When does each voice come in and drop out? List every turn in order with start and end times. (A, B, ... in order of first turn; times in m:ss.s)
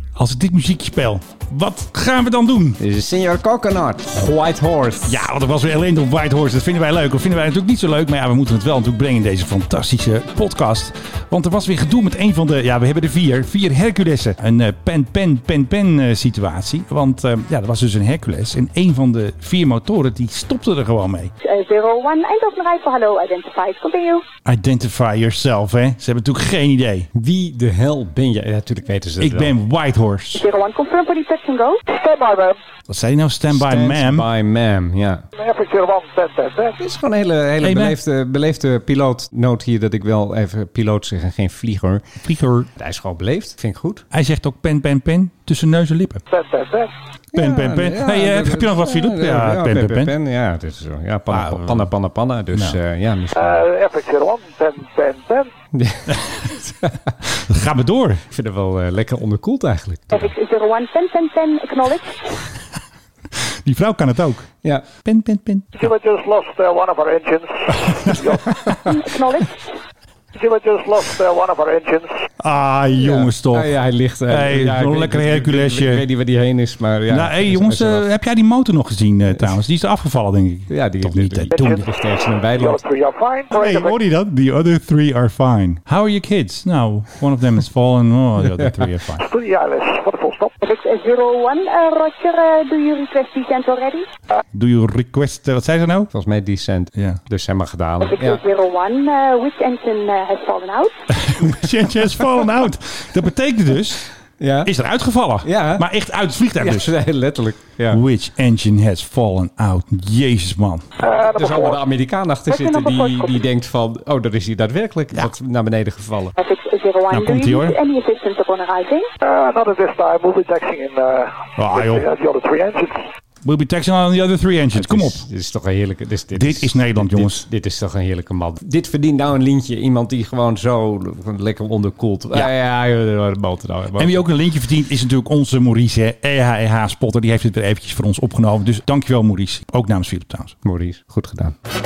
0:00.2-0:02.8 A
0:02.8-0:05.2 B
0:05.1-0:21.3 A
0:21.4-0:24.2 C
0:24.4-0:27.1 A
0:27.2-0:29.6 B
0:29.2-0:30.4 A
0:30.4-0:31.8 C
0:31.9-0:32.6 D
0:32.9-0:34.3 A
0:33.5-0:35.2 B
0:35.4-0:36.8 D
0:36.8-0:42.1 B
0:37.6-0:38.0 A
0:42.2-0:42.7 A
0:42.8-0:44.1 B
0:44.1-0:46.2 A
0:46.3-0:46.9 D
0:47.3-0:53.6 B
0:47.4-0:50.1 A
0:51.3-0:51.9 A
0:52.5-0:52.8 A
0:53.3-0:55.5 D
0:55.7-0:57.0 B
0:57.2-0:58.2 A
0:58.3-1:00.3 B
1:00.1-1:02.2 C
1:03.5-1:05.7 A
1:05.8-1:08.6 D
1:08.9-1:09.7 C
1:10.4-1:12.2 D
1:12.4-1:13.7 A
1:13.0-1:18.1 B
1:14.3-1:16.0 A
1:17.1-1:21.9 A
1:20.7-1:22.8 B
1:21.5-1:21.9 D
1:22.5-1:24.0 D
1:23.5-1:29.3 A
1:29.2-1:30.6 D
1:30.6-1:34.1 C
1:34.5-1:36.1 A
1:36.1-1:38.4 B
1:37.0-1:37.2 A
1:38.0-1:41.0 C
1:41.1-1:44.0 A
1:44.4-1:44.7 B
1:44.6-1:47.0 A
1:45.4-1:45.9 B
1:46.6-1:48.0 B
1:47.9-1:50.8 A
1:51.0-1:51.8 D
1:51.2-1:56.4 B
1:52.5-1:53.4 C
1:56.4-1:59.1 C
1:57.1-1:57.8 A
1:59.2-2:03.0 D
2:01.6-2:02.1 A
2:03.4-2:05.2 A
2:04.7-2:14.2 B
2:06.3-2:07.4 A
2:14.0-2:20.6 A
2:20.6-2:21.6 B